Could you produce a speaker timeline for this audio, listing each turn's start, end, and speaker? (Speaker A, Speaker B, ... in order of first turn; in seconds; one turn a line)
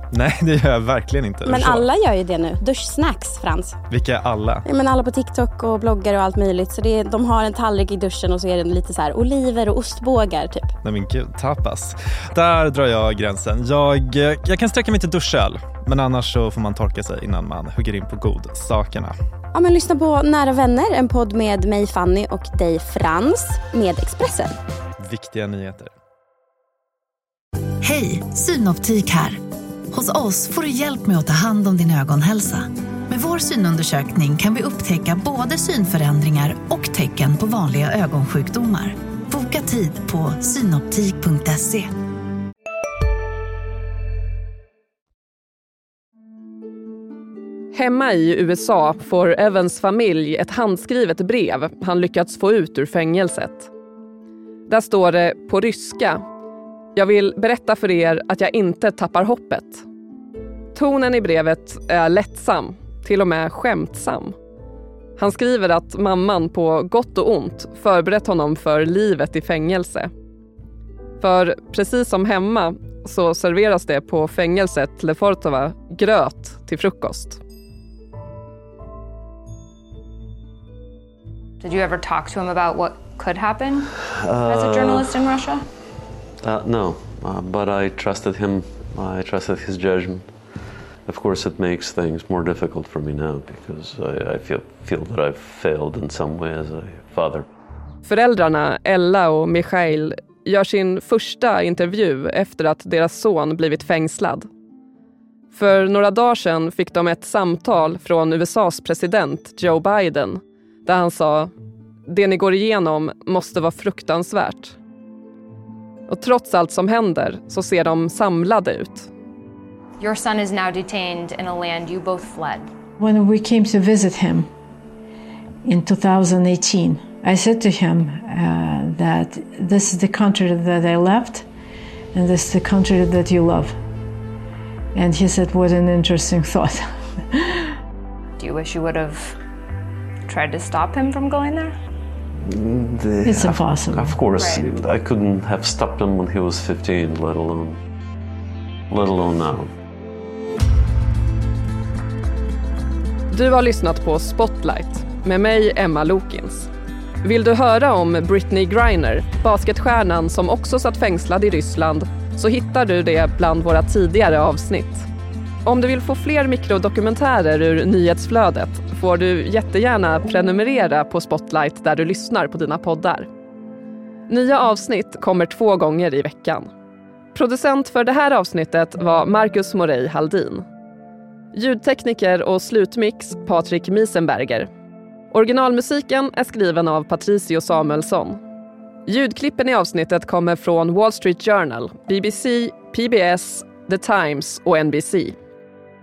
Speaker A: 0.1-1.9
Speaker B: 1.4-3.8
Speaker A: 3.9-4.6
Speaker B: 4.6-10.7
Speaker A: 10.8-19.1
Speaker B: 19.5-24.6
Speaker A: 25.0-25.9
Speaker C: 27.8-29.4
Speaker C: 29.9-41.9
Speaker D: 47.7-53.7
Speaker D: 54.7-56.2
Speaker D: 57.0-59.8
Speaker D: 60.8-64.3
Speaker D: 65.2-70.1
Speaker D: 71.2-77.4
Speaker E: 81.6-83.9
Speaker F: 84.0-85.4
Speaker E: 84.4-85.6
Speaker F: 86.4-90.3
Speaker F: 91.0-97.5
Speaker D: 98.0-104.5
Speaker D: 105.5-111.5
Speaker D: 112.1-114.8
Speaker D: 116.1-119.1
Speaker E: 120.0-122.7
Speaker G: 123.0-124.5
Speaker G: 125.6-131.5
Speaker G: 132.1-133.8
Speaker G: 134.9-136.8
Speaker E: 138.4-139.4
Speaker E: 140.3-141.7
Speaker F: 142.5-147.8
Speaker G: 143.2-144.2
Speaker E: 144.3-144.7
Speaker F: 148.9-149.7
Speaker D: 153.3-156.7
Speaker D: 157.2-165.1
Speaker D: 165.6-173.3
Speaker D: 174.3-176.7
Speaker D: 177.3-180.6
Speaker D: 181.5-184.7
Speaker D: 185.3-188.4
Speaker D: 189.1-195.3